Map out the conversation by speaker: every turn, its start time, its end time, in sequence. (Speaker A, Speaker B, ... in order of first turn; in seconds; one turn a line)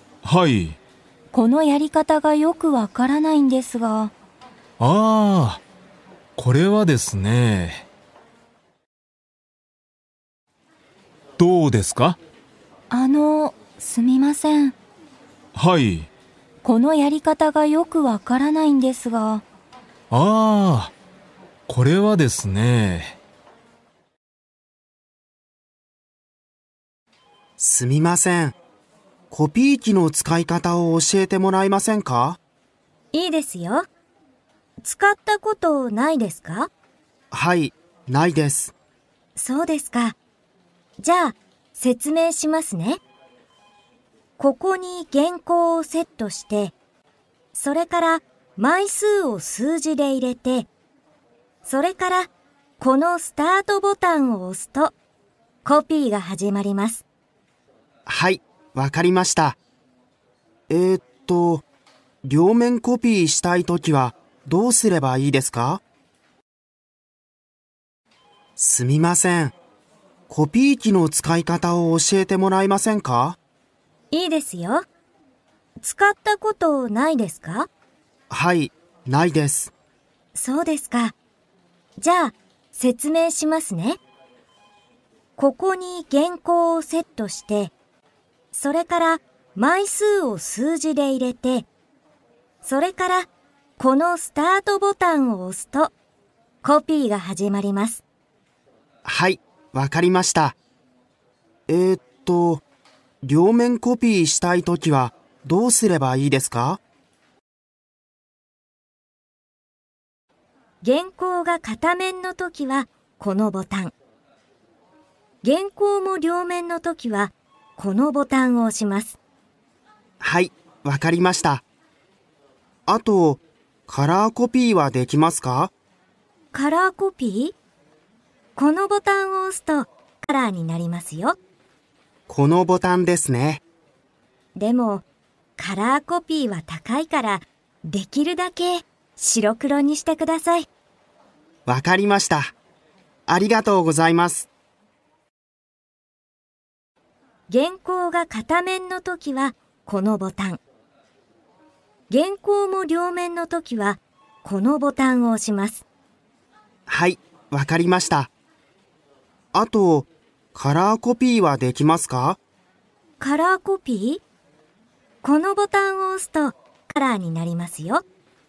Speaker A: 0.2-0.8
Speaker B: 1.3-4.1
Speaker A: 4.8-5.6
Speaker A: 6.4-7.9
Speaker A: 11.4-12.2
Speaker B: 12.9-14.8
Speaker A: 15.5-16.1
Speaker B: 16.6-19.4
Speaker A: 20.1-20.9
Speaker A: 21.7-23.2
Speaker C: 27.6-28.6
Speaker C: 29.3-32.4
Speaker D: 33.1-33.9
Speaker D: 34.8-36.7
Speaker C: 37.3-38.7
Speaker D: 39.4-40.2
Speaker D: 41.0-43.0
Speaker D: 44.4-46.8
Speaker D: 47.5-50.7
Speaker D: 51.7-54.9
Speaker D: 55.6-57.0
Speaker C: 58.1-59.6
Speaker C: 60.7-61.6
Speaker C: 62.2-65.8
Speaker C: 68.6-69.6
Speaker C: 70.3-73.4
Speaker D: 74.1-74.8
Speaker D: 75.8-77.7
Speaker C: 78.3-79.7
Speaker D: 80.3-81.2
Speaker D: 82.0-84.0
Speaker D: 85.4-87.7
Speaker D: 88.5-91.7
Speaker D: 92.6-95.9
Speaker D: 96.6-98.0
Speaker C: 99.0-100.6
Speaker C: 101.7-102.6
Speaker C: 103.2-106.8
Speaker D: 110.8-113.9
Speaker D: 115.4-119.2
Speaker C: 120.2-121.6
Speaker C: 122.9-125.7
Speaker D: 126.5-127.5
Speaker D: 128.6-131.4
Speaker C: 132.3-133.6
Speaker D: 134.6-135.1
Speaker D: 135.6-140.7
Speaker C: 141.7-142.5
Speaker C: 143.3-144.5
Speaker D: 147.5-150.6
Speaker D: 152.1-155.8
Speaker C: 156.9-158.3
Speaker C: 159.5-162.4
Speaker D: 163.2-164.2
Speaker D: 165.2-168.0